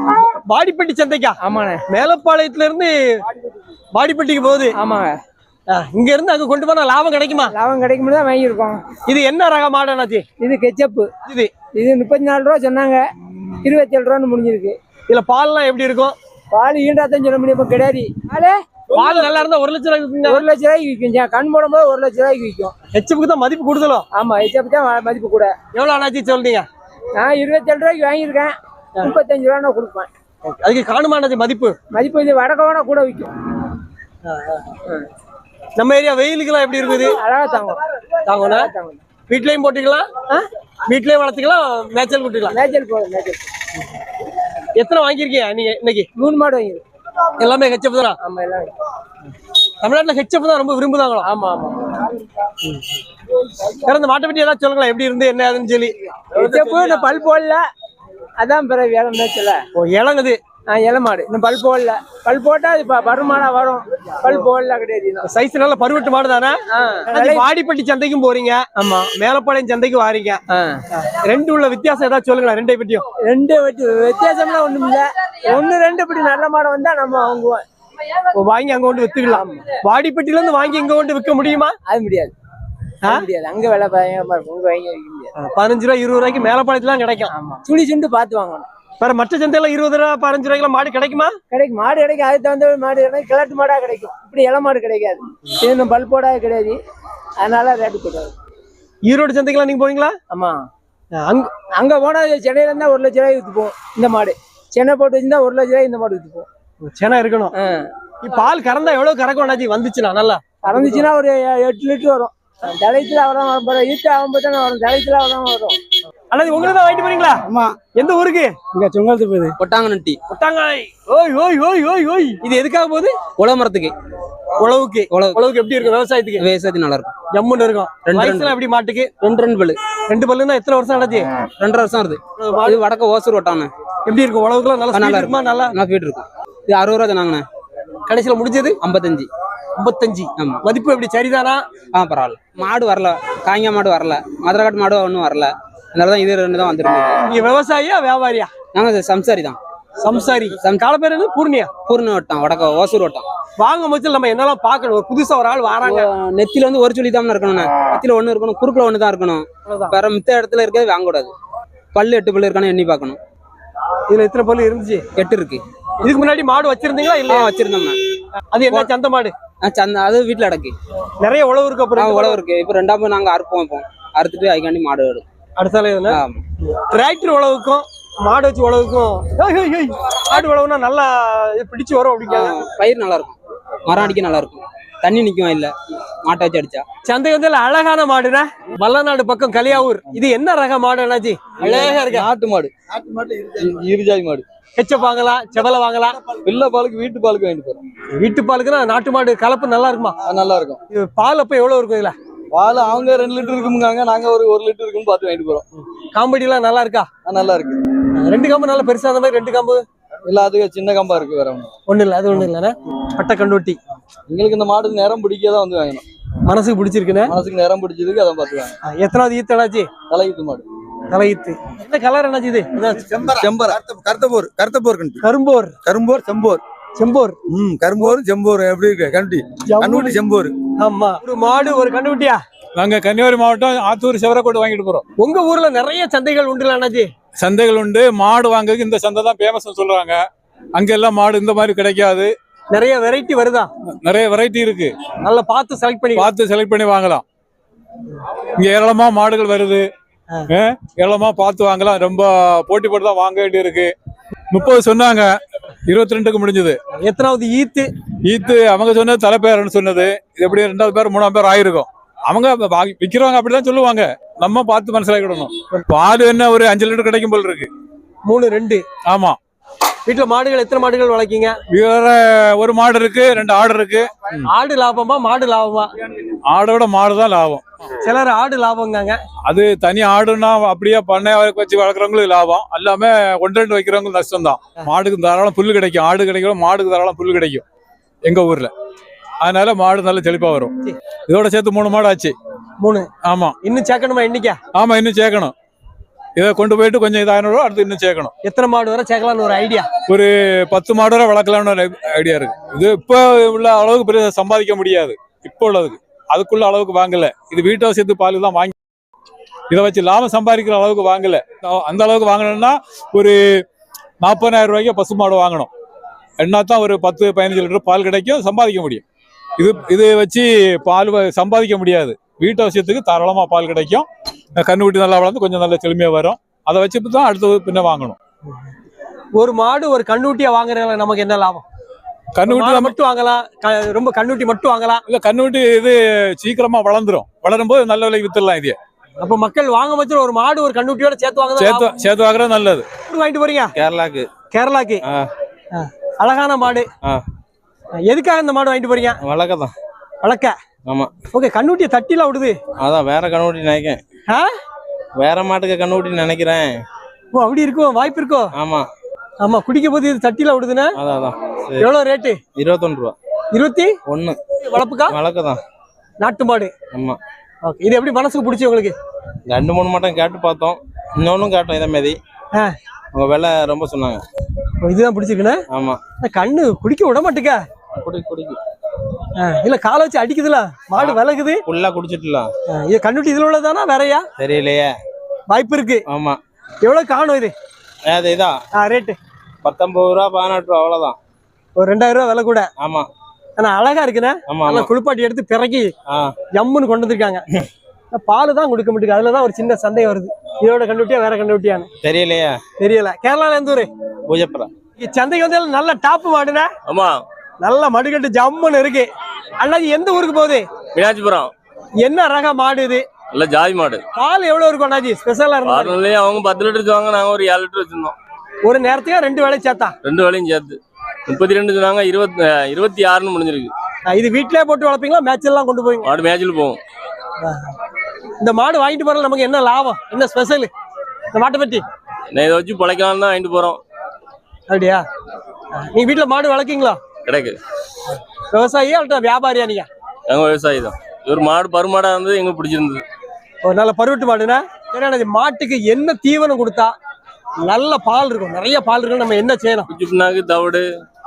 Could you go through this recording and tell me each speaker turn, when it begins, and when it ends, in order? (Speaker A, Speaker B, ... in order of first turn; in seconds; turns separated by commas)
Speaker A: 0.4-1.4, Speaker B: 1.4-1.8, Speaker A: 1.9-3.2, Speaker A: 4.0-4.8, Speaker B: 4.8-5.2, Speaker A: 5.7-7.5, Speaker B: 7.5-8.8, Speaker A: 9.1-10.2, Speaker B: 10.4-11.1, Speaker A: 11.3-11.5, Speaker B: 11.8-13.0, Speaker B: 13.6-14.8, Speaker A: 15.1-16.1, Speaker B: 16.5-19.3, Speaker A: 18.9-20.5, Speaker B: 20.2-22.7, Speaker A: 22.9-24.1, Speaker B: 24.1-25.5, Speaker A: 25.7-26.7, Speaker B: 27.2-30.1, Speaker A: 30.4-31.8, Speaker B: 31.9-33.3, Speaker A: 34.3-34.7, Speaker A: 35.8-37.2, Speaker B: 37.0-37.8, Speaker A: 38.3-38.7, Speaker B: 38.3-39.0, Speaker A: 39.3-42.6, Speaker B: 42.5-43.4, Speaker A: 44.8-46.1, Speaker B: 46.2-46.8, Speaker A: 47.4-48.2, Speaker B: 48.2-48.7, Speaker A: 49.8-51.3, Speaker B: 51.2-52.1, Speaker A: 53.8-57.1, Speaker B: 56.4-57.6, Speaker B: 58.4-59.6, Speaker A: 59.8-60.4, Speaker B: 60.7-65.3, Speaker A: 65.2-70.4, Speaker B: 66.7-67.5, Speaker A: 71.0-73.0, Speaker B: 73.2-77.6, Speaker A: 78.3-81.8, Speaker B: 79.3-79.6, Speaker B: 81.9-82.3, Speaker B: 83.1-85.3, Speaker A: 85.4-87.3, Speaker B: 87.3-88.7, Speaker A: 89.0-91.4, Speaker B: 91.5-96.8, Speaker B: 97.4-98.3, Speaker A: 99.1-100.2, Speaker B: 100.3-100.7, Speaker A: 101.2-101.5, Speaker B: 101.8-106.5, Speaker A: 106.8-107.5, Speaker B: 107.6-107.9, Speaker A: 108.2-111.1, Speaker B: 110.7-115.8, Speaker A: 116.3-117.4, Speaker A: 118.0-118.6, Speaker C: 119.5-120.2, Speaker A: 120.3-123.2, Speaker C: 123.4-124.0, Speaker A: 124.6-126.4, Speaker C: 125.1-125.4, Speaker C: 126.4-127.2, Speaker A: 127.3-129.2, Speaker C: 128.1-128.6, Speaker C: 129.2-129.8, Speaker A: 130.1-131.3, Speaker C: 131.6-133.7, Speaker A: 132.4-132.8, Speaker A: 134.1-135.8, Speaker C: 134.9-137.5, Speaker A: 138.1-138.8, Speaker C: 138.8-139.3, Speaker A: 139.8-141.6, Speaker C: 141.9-147.2, Speaker A: 147.2-148.5, Speaker C: 148.7-149.6, Speaker A: 150.0-151.7, Speaker C: 150.6-150.9, Speaker C: 151.8-153.3, Speaker A: 153.6-156.1, Speaker C: 155.8-161.3, Speaker A: 159.7-159.9, Speaker C: 161.9-163.2, Speaker A: 164.1-165.0, Speaker C: 165.2-165.6, Speaker A: 166.0-167.5, Speaker C: 167.3-168.0, Speaker A: 168.5-169.3, Speaker C: 169.6-170.8, Speaker A: 171.2-172.4, Speaker C: 172.0-175.2, Speaker A: 175.6-176.2, Speaker C: 176.1-176.4, Speaker A: 176.7-182.6, Speaker C: 182.2-186.9, Speaker A: 187.1-192.3, Speaker D: 191.6-194.4, Speaker A: 194.8-196.2, Speaker D: 196.4-197.8, Speaker A: 198.1-200.2, Speaker D: 200.2-200.8, Speaker A: 200.9-202.2, Speaker D: 202.5-205.7, Speaker A: 206.0-207.1, Speaker D: 207.2-207.8, Speaker A: 208.2-209.8, Speaker D: 210.3-211.7, Speaker A: 211.9-213.8, Speaker D: 214.3-216.0, Speaker A: 216.5-217.3, Speaker D: 217.3-218.7, Speaker A: 218.9-219.9, Speaker D: 220.1-220.6, Speaker A: 221.1-223.1, Speaker E: 223.4-225.1, Speaker D: 223.4-223.8, Speaker A: 225.2-225.8, Speaker E: 225.9-226.4, Speaker A: 227.0-227.4, Speaker E: 227.5-230.5, Speaker A: 229.7-230.2, Speaker A: 230.8-232.4, Speaker F: 232.8-235.0, Speaker A: 235.2-237.1, Speaker F: 237.4-240.2, Speaker F: 240.8-242.3, Speaker A: 242.7-243.7, Speaker F: 244.1-244.9, Speaker A: 245.2-246.3, Speaker F: 246.2-247.2, Speaker F: 248.6-249.9, Speaker F: 250.5-253.9, Speaker F: 254.5-255.3, Speaker F: 255.9-256.8, Speaker A: 256.9-257.9, Speaker F: 258.2-267.7, Speaker A: 268.2-268.8, Speaker F: 269.1-269.4, Speaker A: 270.1-271.6, Speaker F: 271.7-274.4, Speaker A: 274.5-275.9, Speaker F: 276.5-277.6, Speaker A: 278.0-279.2, Speaker F: 279.5-287.6, Speaker F: 288.2-288.7, Speaker F: 289.4-290.7, Speaker F: 291.3-292.4, Speaker A: 292.8-293.1, Speaker F: 293.2-293.6, Speaker A: 293.6-294.6, Speaker F: 294.8-295.5, Speaker F: 296.4-298.3, Speaker A: 298.4-299.9, Speaker F: 300.1-308.7, Speaker F: 309.7-313.6, Speaker F: 314.2-315.7, Speaker F: 316.4-319.0, Speaker F: 319.6-328.2, Speaker A: 329.4-331.6, Speaker F: 332.4-332.9, Speaker A: 332.5-335.0, Speaker F: 335.1-338.8, Speaker A: 339.2-341.9, Speaker F: 341.6-342.9, Speaker A: 343.1-343.7, Speaker G: 343.8-344.3, Speaker A: 344.5-345.0, Speaker G: 345.0-345.3, Speaker A: 345.7-346.9, Speaker A: 348.1-349.2, Speaker G: 349.2-349.7, Speaker A: 350.2-350.5, Speaker A: 351.3-352.6, Speaker G: 352.8-354.0, Speaker G: 355.2-356.8, Speaker A: 357.3-358.5, Speaker G: 358.6-358.9, Speaker A: 359.4-360.9, Speaker G: 361.0-361.9, Speaker A: 361.8-362.4, Speaker G: 362.6-363.2, Speaker A: 363.5-363.9, Speaker G: 364.1-364.4, Speaker A: 364.6-365.2, Speaker G: 365.1-365.6, Speaker A: 366.2-366.7, Speaker G: 366.9-367.2, Speaker A: 367.6-368.9, Speaker G: 369.5-372.2, Speaker G: 373.1-374.2, Speaker A: 374.8-375.6, Speaker G: 375.7-376.0, Speaker A: 376.2-377.6, Speaker G: 378.0-378.6, Speaker A: 379.4-381.6, Speaker G: 381.0-382.5, Speaker A: 382.7-384.2, Speaker G: 384.4-384.9, Speaker A: 385.5-386.0, Speaker G: 386.1-386.4, Speaker A: 386.8-387.5, Speaker G: 388.1-388.6, Speaker A: 388.8-389.2, Speaker G: 389.6-391.2, Speaker A: 391.8-392.7, Speaker G: 392.8-393.1, Speaker A: 393.6-395.9, Speaker G: 394.5-394.9, Speaker G: 396.1-396.4, Speaker A: 396.5-397.4, Speaker A: 398.1-401.9, Speaker G: 402.0-402.6, Speaker A: 402.8-403.9, Speaker G: 404.3-404.7, Speaker A: 405.0-406.7, Speaker H: 406.9-407.2, Speaker A: 407.6-410.7, Speaker H: 410.9-411.5, Speaker A: 412.0-413.1, Speaker H: 413.3-414.0, Speaker A: 414.1-416.0, Speaker H: 415.6-418.1, Speaker A: 418.6-419.9, Speaker H: 420.0-423.7, Speaker A: 424.1-426.1, Speaker H: 426.0-426.8, Speaker A: 427.4-427.7, Speaker A: 428.4-430.7, Speaker A: 431.3-431.8, Speaker H: 432.3-433.8, Speaker A: 434.7-435.0, Speaker A: 435.7-437.0, Speaker H: 437.2-437.6, Speaker A: 438.5-439.9, Speaker H: 440.3-443.0, Speaker A: 443.6-446.9, Speaker A: 447.6-449.9, Speaker H: 449.9-450.9